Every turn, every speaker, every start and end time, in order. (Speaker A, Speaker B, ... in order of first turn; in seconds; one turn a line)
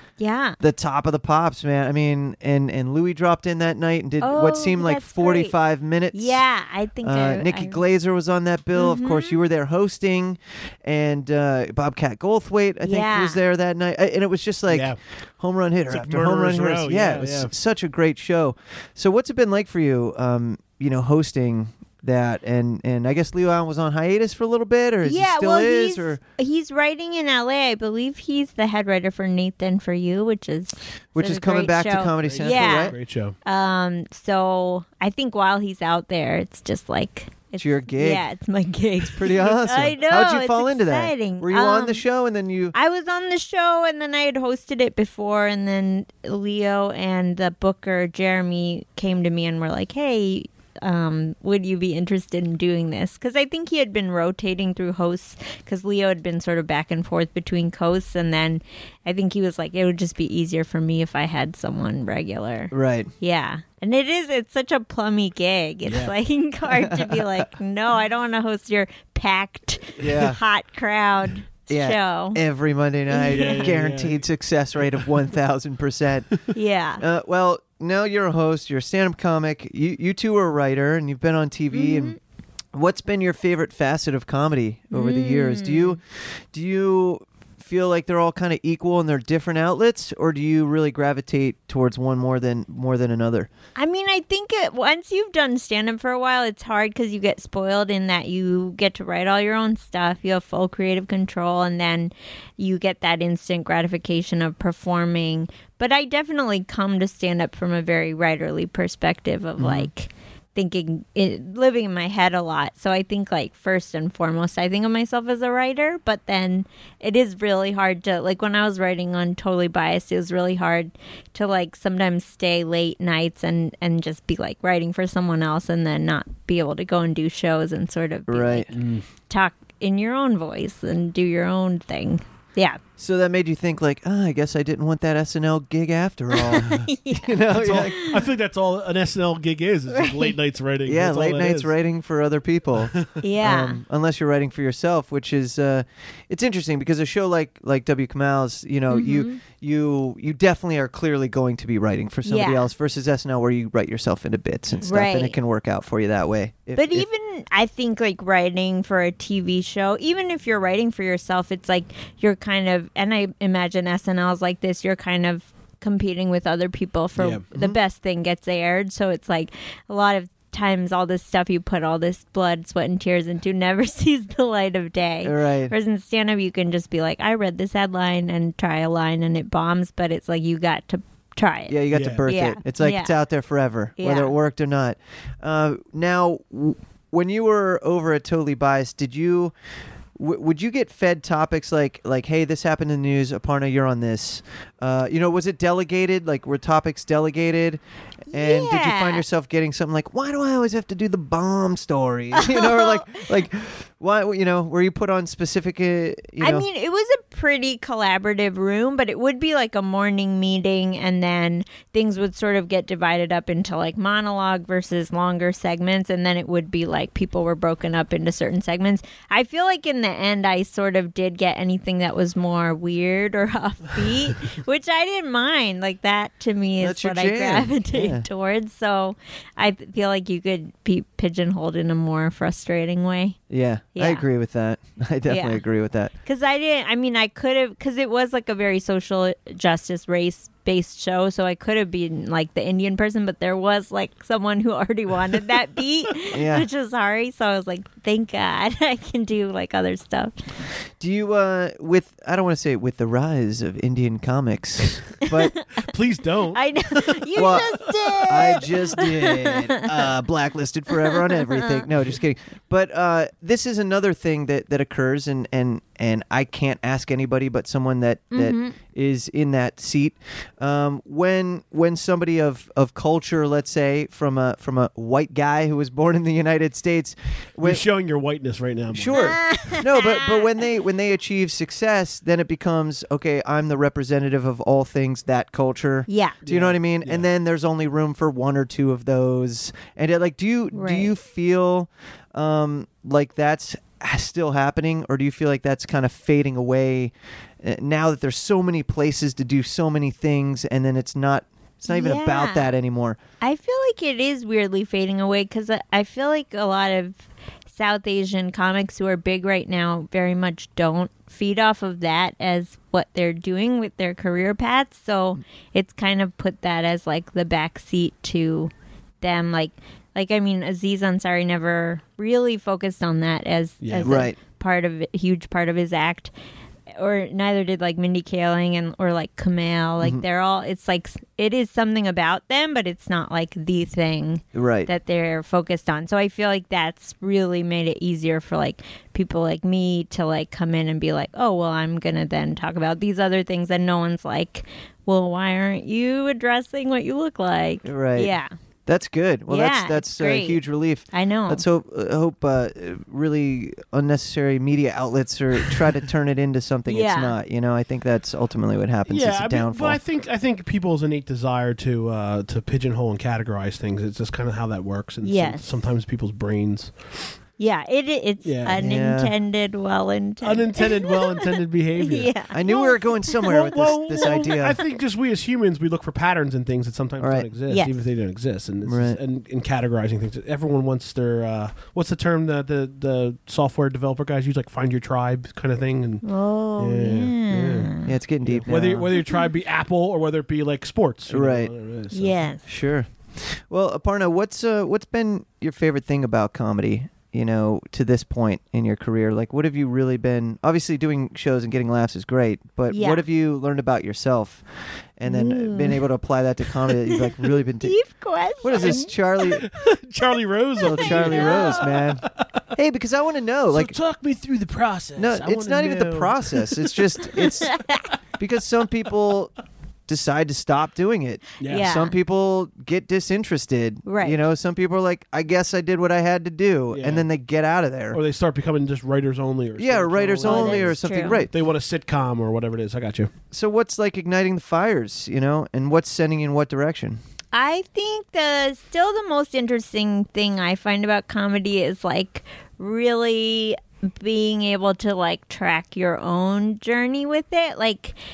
Speaker A: 0.2-0.6
Speaker B: 0.6-6.4
Speaker A: 4.2-5.5
Speaker A: 6.1-7.8
Speaker B: 7.0-26.2
Speaker A: 8.7-9.4
Speaker A: 12.8-13.4
Speaker C: 14.7-15.0
Speaker C: 15.9-17.5
Speaker A: 25.0-42.0
Speaker B: 31.1-32.9
Speaker C: 32.2-33.4
Speaker B: 37.6-38.2
Speaker B: 39.1-42.7
Speaker A: 42.7-72.4
Speaker B: 62.7-63.1
Speaker C: 65.8-66.1
Speaker B: 66.7-67.5
Speaker B: 70.0-70.4
Speaker B: 71.7-76.5
Speaker A: 73.1-73.7
Speaker C: 73.2-74.2
Speaker A: 76.5-77.0
Speaker B: 77.0-82.2
Speaker A: 81.7-82.2
Speaker B: 82.7-93.5
Speaker A: 84.9-86.0
Speaker A: 93.7-128.7
Speaker B: 109.6-109.9
Speaker B: 128.3-128.7
Speaker C: 128.7-129.0
Speaker A: 129.3-132.8
Speaker B: 133.0-138.1
Speaker A: 136.3-138.2
Speaker C: 137.5-141.7
Speaker A: 139.9-140.3
Speaker B: 140.8-157.1
Speaker A: 143.2-143.8
Speaker A: 148.9-149.4
Speaker A: 152.2-152.7
Speaker A: 154.8-155.3
Speaker A: 156.8-183.1
Speaker C: 167.2-167.5
Speaker B: 167.5-167.8
Speaker B: 175.2-175.7
Speaker B: 181.7-189.5
Speaker C: 181.9-182.2
Speaker A: 184.0-184.3
Speaker B: 190.2-206.7
Speaker A: 198.3-199.2
Speaker A: 202.3-203.3
Speaker A: 206.4-233.4
Speaker B: 226.8-228.2
Speaker B: 233.5-236.1
Speaker A: 233.9-234.2
Speaker A: 235.2-235.6
Speaker A: 236.2-250.3
Speaker B: 246.3-246.7
Speaker B: 251.0-255.6
Speaker A: 255.3-255.8
Speaker C: 255.8-258.4
Speaker A: 256.5-260.0
Speaker B: 257.3-277.8
Speaker A: 260.9-261.8
Speaker A: 268.3-268.8
Speaker C: 277.6-279.3
Speaker B: 278.9-303.2
Speaker A: 279.1-280.4
Speaker A: 286.1-286.3
Speaker C: 286.4-287.3
Speaker A: 290.7-291.1
Speaker A: 301.9-302.7
Speaker A: 303.4-326.3
Speaker C: 323.8-324.3
Speaker B: 324.0-324.4
Speaker A: 326.9-348.5
Speaker B: 334.5-334.9
Speaker B: 347.8-348.3
Speaker B: 348.9-360.0
Speaker A: 349.5-350.6
Speaker A: 351.1-351.6
Speaker A: 356.9-357.3
Speaker C: 359.1-367.3
Speaker A: 365.2-365.6
Speaker A: 367.6-374.6
Speaker C: 368.4-368.8
Speaker B: 368.7-369.3
Speaker C: 370.4-372.3
Speaker B: 372.5-374.8
Speaker C: 373.5-386.2
Speaker B: 377.2-377.5
Speaker A: 377.7-377.9
Speaker B: 378.8-379.2
Speaker A: 386.2-388.1
Speaker C: 386.8-392.4
Speaker B: 388.0-389.1
Speaker A: 389.1-389.5
Speaker B: 391.3-391.7
Speaker A: 392.1-392.6
Speaker B: 392.7-404.6
Speaker A: 402.9-403.2
Speaker B: 405.2-408.0
Speaker A: 405.3-406.1
Speaker A: 407.1-409.1
Speaker B: 408.6-409.6
Speaker C: 408.7-412.6
Speaker A: 410.8-412.0
Speaker B: 410.9-412.2
Speaker B: 412.7-414.0
Speaker C: 413.7-417.5
Speaker B: 415.2-417.8
Speaker A: 417.6-418.0
Speaker B: 418.4-419.5
Speaker B: 420.1-428.2
Speaker C: 421.6-421.9
Speaker A: 421.7-422.1
Speaker A: 424.0-424.4
Speaker C: 426.9-427.3
Speaker C: 428.1-433.3
Speaker B: 429.8-431.5
Speaker A: 430.4-431.4
Speaker B: 433.5-437.2
Speaker A: 437.5-448.2